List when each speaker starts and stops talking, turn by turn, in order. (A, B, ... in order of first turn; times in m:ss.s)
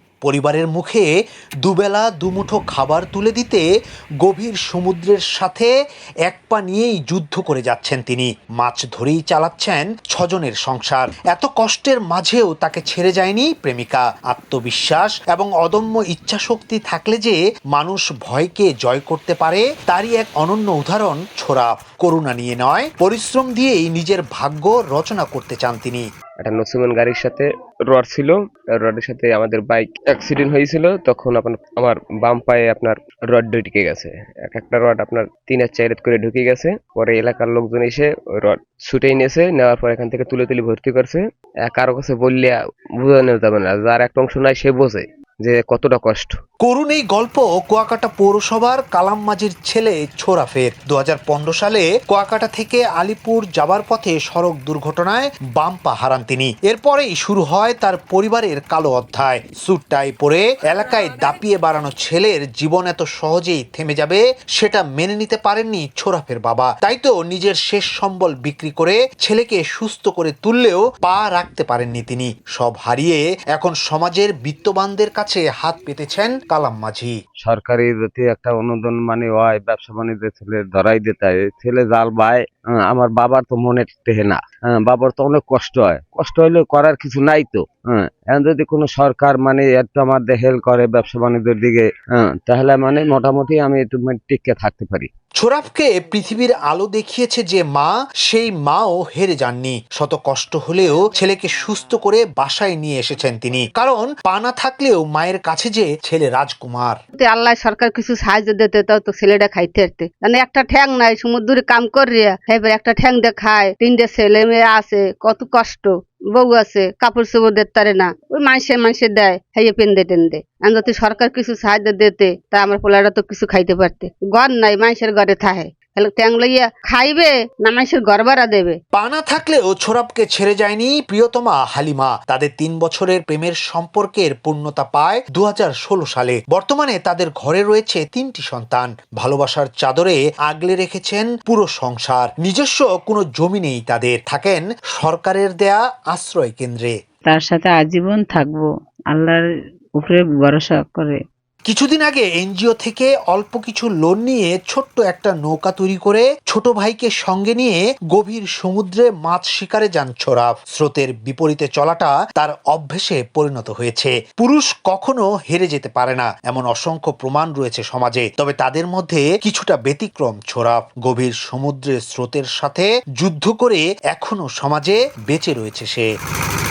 0:00.2-0:01.1 A
0:01.6-0:03.6 A
0:04.2-0:05.7 A
0:06.2-0:26.0 A
0:26.4-0:46.3 B
0:46.6-1:17.1 A
1:17.4-1:35.1 C
1:35.4-1:46.9 A
1:47.2-2:08.8 D
2:08.9-2:26.9 A
2:27.3-2:29.4 E
2:30.0-2:31.2 E
2:31.7-2:56.1 A